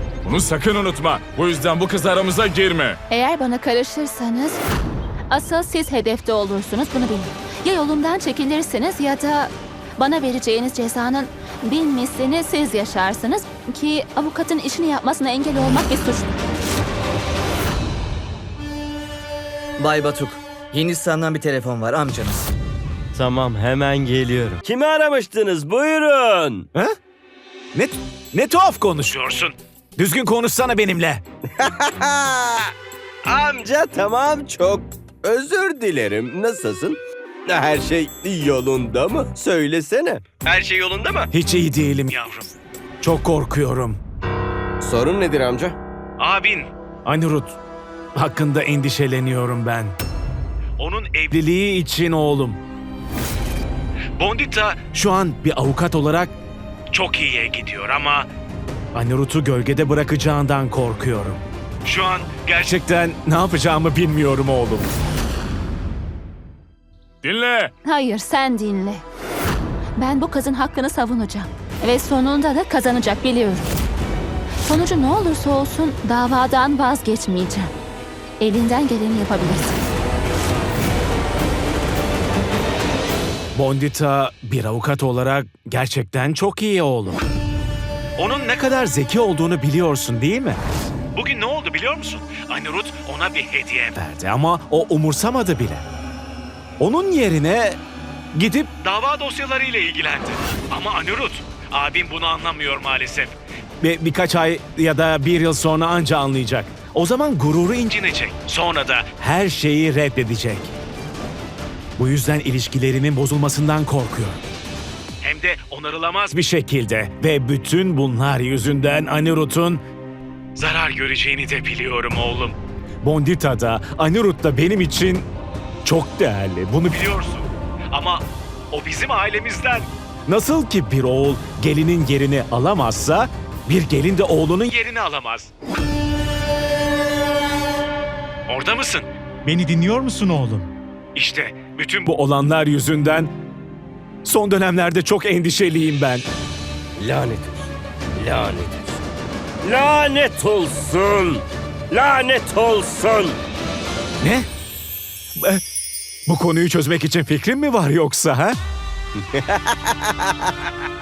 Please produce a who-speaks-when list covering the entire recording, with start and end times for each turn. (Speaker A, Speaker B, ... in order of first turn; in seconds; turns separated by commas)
Speaker A: 0.2-3.0, Speaker B: 3.1-4.6, Speaker B: 5.3-16.4, Speaker C: 19.8-22.5, Speaker D: 23.1-26.7, Speaker E: 27.7-31.2, Speaker D: 31.6-32.7, Speaker D: 33.2-41.3, Speaker E: 41.3-44.0, Speaker D: 44.8-45.8, Speaker E: 46.2-47.5, Speaker E: 48.1-50.0, Speaker E: 50.8-52.6, Speaker E: 54.2-56.4, Speaker E: 56.9-58.3, Speaker E: 58.9-64.9, Speaker A: 67.2-67.7, Speaker B: 67.8-69.0, Speaker B: 70.0-73.7, Speaker B: 74.6-77.7, Speaker B: 78.4-79.8, Speaker E: 83.5-87.2, Speaker E: 88.2-90.6, Speaker E: 91.1-95.8, Speaker E: 96.8-97.8, Speaker E: 98.3-110.7, Speaker E: 112.0-114.4, Speaker E: 115.2-119.8, Speaker E: 120.6-125.3, Speaker E: 125.8-135.5, Speaker E: 138.5-143.3, Speaker E: 144.2-146.2, Speaker D: 147.0-149.0, Speaker D: 149.6-153.4, Speaker E: 154.2-154.5, Speaker E: 156.3-158.6, Speaker D: 159.2-160.5